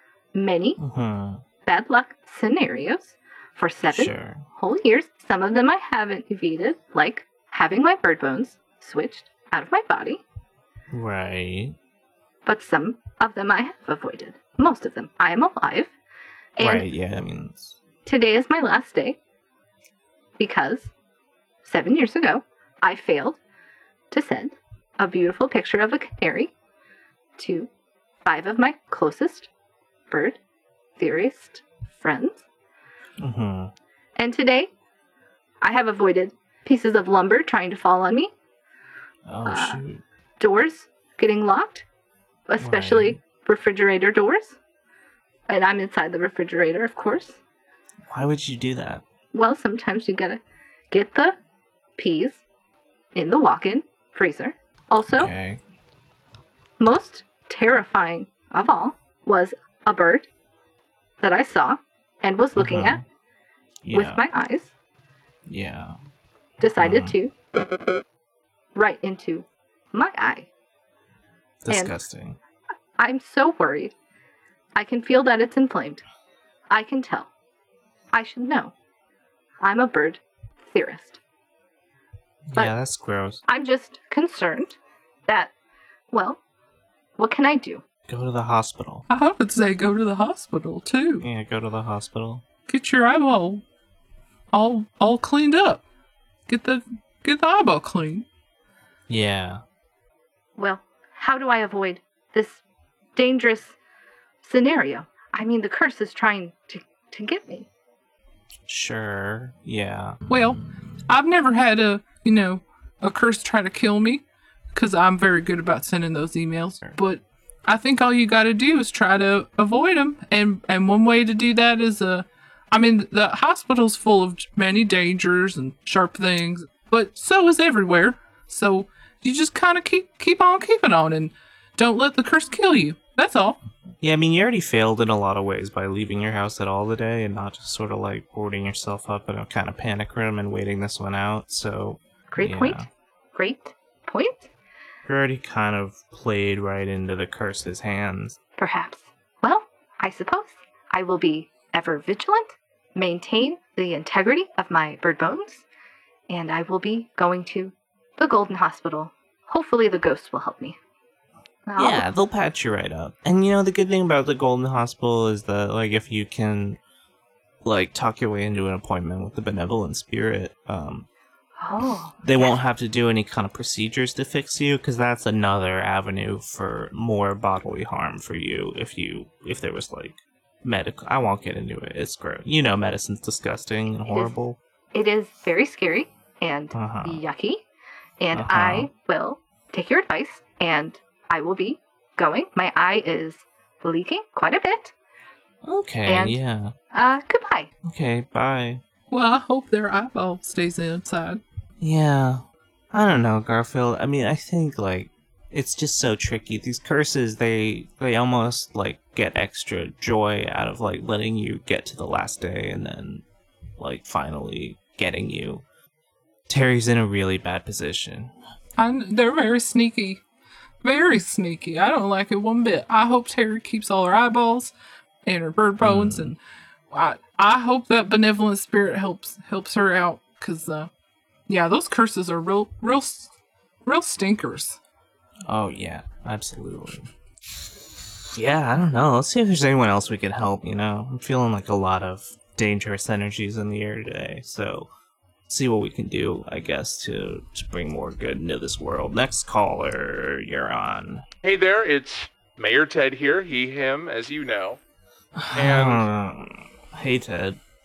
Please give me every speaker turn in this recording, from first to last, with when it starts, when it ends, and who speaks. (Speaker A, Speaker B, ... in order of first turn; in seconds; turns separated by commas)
Speaker A: 0.3-0.8, Speaker B: 0.8-1.4, Speaker A: 1.6-10.2, Speaker B: 3.9-4.4, Speaker B: 10.9-11.8, Speaker A: 12.4-15.9, Speaker A: 16.6-16.9, Speaker B: 16.6-17.8, Speaker A: 18.0-19.2, Speaker A: 20.4-20.9, Speaker A: 21.6-23.4, Speaker A: 24.1-26.5, Speaker A: 27.4-27.7, Speaker A: 28.2-29.5, Speaker A: 30.1-30.4, Speaker A: 31.0-32.4, Speaker B: 33.2-33.7, Speaker A: 34.2-34.7, Speaker A: 35.6-38.3, Speaker B: 39.3-40.0, Speaker A: 39.5-39.8, Speaker A: 40.4-41.8, Speaker A: 42.5-44.5, Speaker B: 42.6-43.2, Speaker A: 45.5-47.4, Speaker B: 48.1-49.0, Speaker A: 49.3-51.4, Speaker A: 52.0-52.4, Speaker A: 53.1-55.3, Speaker B: 55.1-55.6, Speaker A: 56.8-60.3, Speaker A: 61.2-63.0, Speaker B: 62.5-63.0, Speaker B: 63.8-64.2, Speaker A: 63.9-64.7, Speaker B: 65.5-66.0, Speaker A: 66.6-67.3, Speaker B: 66.8-67.1, Speaker A: 68.7-70.5, Speaker B: 71.6-72.4, Speaker A: 71.7-71.9, Speaker A: 73.0-73.9, Speaker A: 74.8-76.0, Speaker A: 76.7-77.3, Speaker A: 78.1-78.7, Speaker A: 79.6-81.2, Speaker B: 82.5-83.4, Speaker A: 83.5-85.5, Speaker A: 86.1-86.4, Speaker A: 87.2-87.8, Speaker B: 88.1-89.0, Speaker C: 89.1-91.2, Speaker B: 91.2-92.4, Speaker C: 92.7-93.6, Speaker C: 94.5-95.8, Speaker C: 96.5-98.2, Speaker B: 99.1-99.6, Speaker A: 100.6-102.6, Speaker A: 103.2-103.8, Speaker A: 104.4-107.7, Speaker B: 108.7-110.2, Speaker C: 110.3-114.2, Speaker C: 114.7-133.6, Speaker B: 134.0-142.9, Speaker A: 142.3-144.5, Speaker B: 145.0-148.4, Speaker A: 148.6-155.6, Speaker A: 156.3-160.8, Speaker A: 161.7-162.1, Speaker B: 161.8-166.8, Speaker B: 167.6-171.1, Speaker A: 171.6-172.6, Speaker B: 172.2-184.6, Speaker A: 184.9-187.6, Speaker B: 186.7-187.2, Speaker A: 188.2-194.9, Speaker B: 188.3-188.9, Speaker B: 195.6-196.7, Speaker A: 196.1-196.4, Speaker A: 196.9-197.7, Speaker B: 197.8-198.8, Speaker C: 199.1-201.4, Speaker B: 201.8-213.2, Speaker B: 213.8-215.6, Speaker B: 216.5-218.3, Speaker C: 218.8-220.2, Speaker C: 220.8-224.7, Speaker C: 225.2-226.4, Speaker B: 225.8-226.3, Speaker C: 226.9-230.9, Speaker C: 231.5-233.3, Speaker C: 233.8-234.8, Speaker B: 235.5-237.1, Speaker B: 238.3-244.9, Speaker B: 245.5-251.2, Speaker D: 251.4-254.8, Speaker B: 255.3-257.6, Speaker D: 255.5-256.1